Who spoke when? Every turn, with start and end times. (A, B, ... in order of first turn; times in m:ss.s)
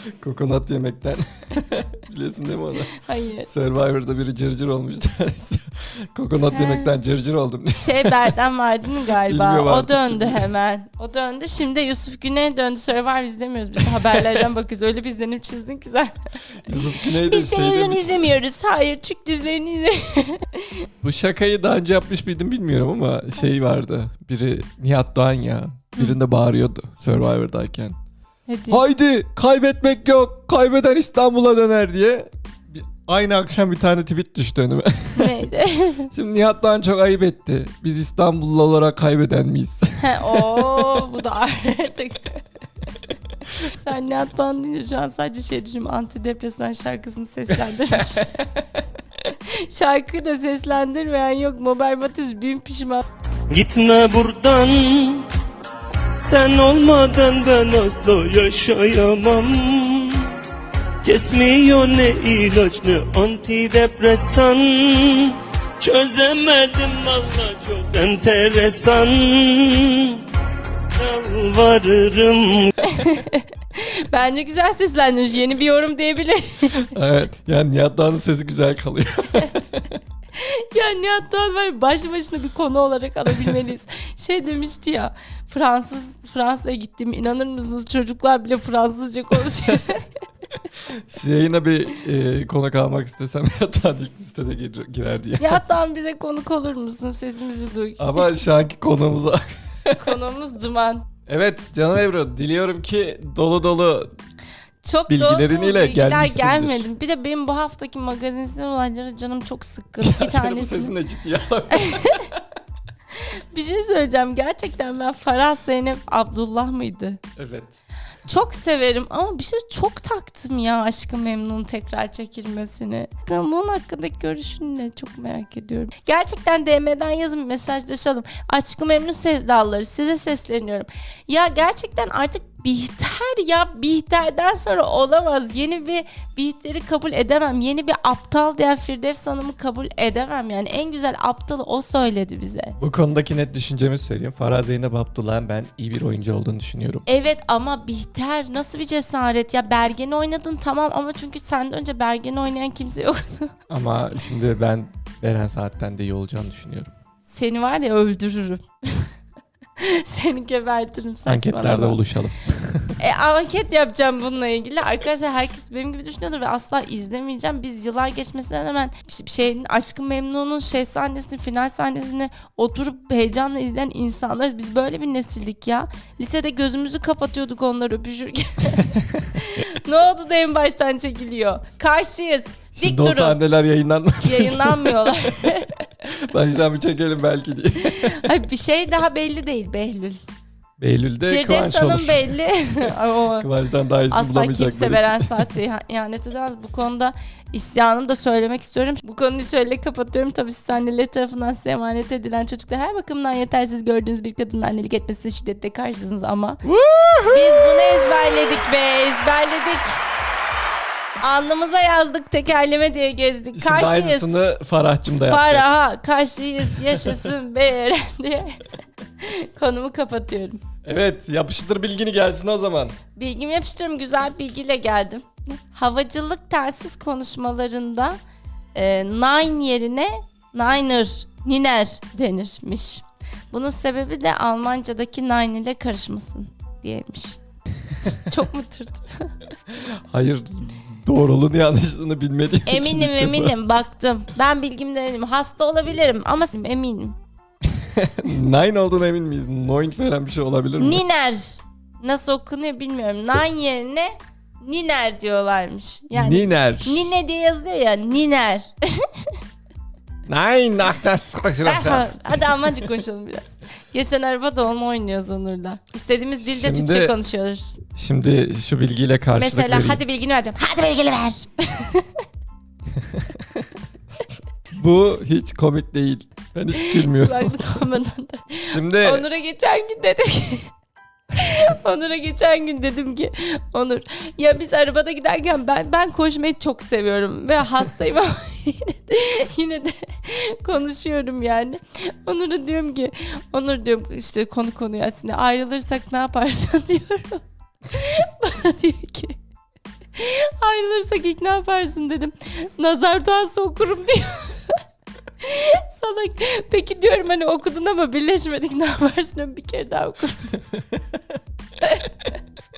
0:00.2-0:08.4 A
0:02.9-0:03.5 B
0:06.5-0:06.9 B
0:07.8-0:16.1 B
0:09.2-0:10.5 A
0:16.6-0:18.3 A
0:16.7-0:20.9 B
0:21.0-0:28.0 A
0:28.5-0:28.8 B
0:28.7-0:35.4 A
0:35.2-0:36.1 B
0:36.1-0:41.0 A
0:40.0-0:42.4 B
0:43.5-0:48.3 B
0:49.3-0:53.0 B
0:53.5-0:55.3 C
0:56.2-1:00.3 C
1:01.0-1:10.2 C
1:10.9-1:12.7 C
1:12.8-1:16.9 B
1:16.7-1:20.0 A
1:20.3-1:30.2 B
1:30.9-1:35.6 A
1:35.4-1:38.3 B
1:38.0-1:40.1 A
1:40.0-1:41.1 B
1:41.3-1:44.1 A
1:44.8-1:51.0 B
1:45.1-1:46.8 A
1:50.0-1:52.4 A
1:51.7-1:52.3 B
1:53.1-1:57.2 B
1:57.4-1:57.8 A
1:58.3-2:22.8 B
2:22.8-2:27.0 A
2:27.1-2:33.5 B
2:33.7-2:36.9 A
2:37.2-2:39.1 B
2:39.8-2:42.0 B
2:41.3-2:43.0 A
2:43.0-3:03.4 B
3:02.8-3:08.3 A
3:04.2-3:05.9 B
3:07.8-3:10.2 B
3:10.8-3:15.5 A
3:11.3-3:13.5 B
3:14.1-3:26.6 B
3:26.7-3:28.6 A
3:27.3-3:30.0 B
3:31.2-3:34.4 B
3:33.6-3:35.7 A
3:35.3-3:38.6 B
3:37.0-3:37.2 A
3:39.2-3:40.6 B
3:40.8-3:43.0 A
3:43.1-3:48.2 B
3:48.8-3:57.4 B
3:58.0-3:59.3 B
3:59.7-4:03.6 A
4:02.7-4:07.2 B
4:07.8-4:11.0 A
4:10.8-4:19.4 B
4:16.1-4:17.1 A
4:20.3-4:22.8 A
4:21.6-4:27.8 B
4:26.4-4:27.2 A
4:28.0-4:30.0 A
4:29.3-4:32.2 B
4:33.0-4:33.4 A
4:34.2-4:37.6 A
4:36.8-4:40.7 B
4:38.6-4:39.2 A
4:41.3-4:59.4 B
5:00.2-5:04.8 B
5:05.4-5:10.6 B
5:11.8-5:12.4 B